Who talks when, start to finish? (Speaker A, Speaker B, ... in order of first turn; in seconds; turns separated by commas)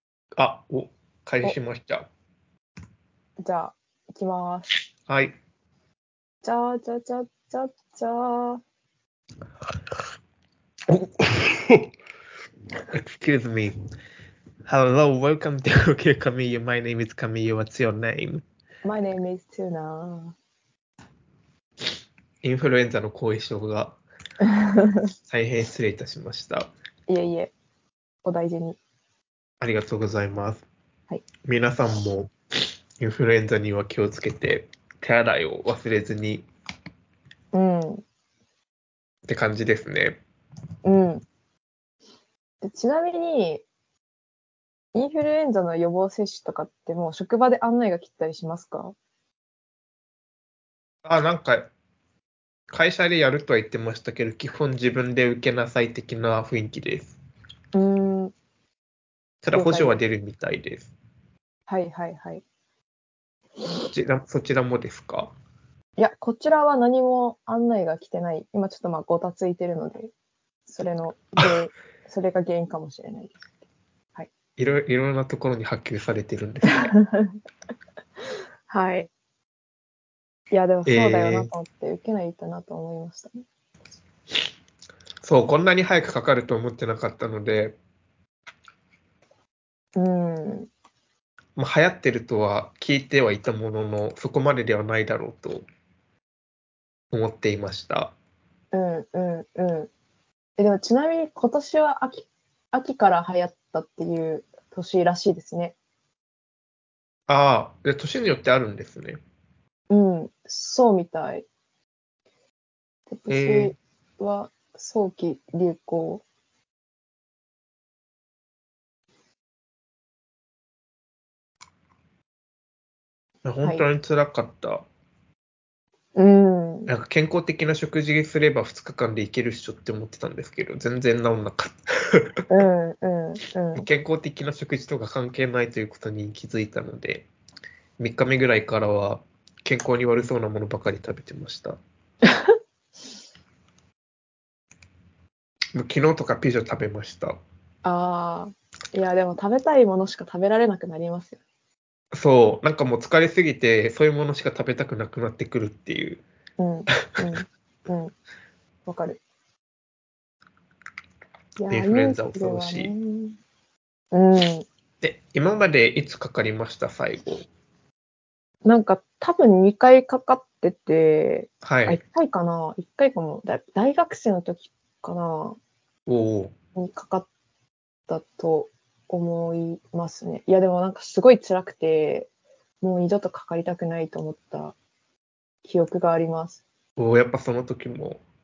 Speaker A: 0.4-2.1, Speaker B: 3.4-4.7, Speaker A: 5.1-5.4, Speaker B: 6.4-8.6, Speaker A: 10.9-11.9, Speaker A: 12.9-13.7, Speaker A: 14.7-18.4, Speaker B: 18.9-20.4, Speaker A: 22.4-24.0, Speaker B: 24.4-25.0, Speaker A: 25.3-26.7, Speaker B: 27.1-27.5, Speaker B: 28.2-28.8, Speaker A: 29.6-30.6, Speaker A: 31.4-32.3, Speaker A: 33.0-36.5, Speaker B: 37.5-38.0, Speaker A: 39.3-40.2, Speaker B: 40.9-41.2, Speaker B: 42.6-43.6, Speaker B: 45.0-49.0, Speaker A: 51.0-51.7, Speaker A: 52.7-57.1, Speaker B: 57.7-58.3, Speaker A: 59.4-60.9, Speaker B: 59.5-59.9, Speaker B: 61.7-62.4, Speaker A: 63.9-65.3, Speaker B: 66.0-70.1, Speaker B: 70.7-73.5, Speaker A: 74.6-76.8, Speaker B: 76.7-77.3, Speaker B: 78.7-79.1, Speaker B: 80.5-83.4, Speaker A: 80.9-81.5, Speaker A: 85.2-87.8, Speaker B: 90.0-90.7, Speaker A: 91.6-95.7, Speaker A: 97.1-98.1, Speaker B: 98.7-99.9, Speaker B: 100.6-105.8, Speaker A: 107.3-109.2, Speaker B: 109.9-111.5, Speaker B: 113.1-116.2, Speaker A: 113.3-113.7, Speaker A: 123.4-124.8, Speaker B: 126.2-126.9, Speaker A: 126.9-132.3, Speaker B: 132.5-133.9, Speaker A: 133.8-137.3, Speaker A: 138.0-141.8, Speaker A: 145.7-147.4, Speaker B: 147.8-151.4, Speaker A: 152.1-156.2, Speaker B: 156.6-158.1, Speaker B: 158.9-159.2, Speaker B: 161.6-163.4, Speaker A: 161.7-162.9, Speaker B: 164.1-164.7, Speaker A: 165.0-167.5, Speaker B: 168.7-175.6, Speaker A: 171.6-172.0, Speaker A: 176.1-176.5, Speaker B: 176.8-177.3, Speaker B: 178.1-182.3, Speaker B: 182.8-184.8, Speaker B: 185.6-186.6, Speaker A: 187.0-188.2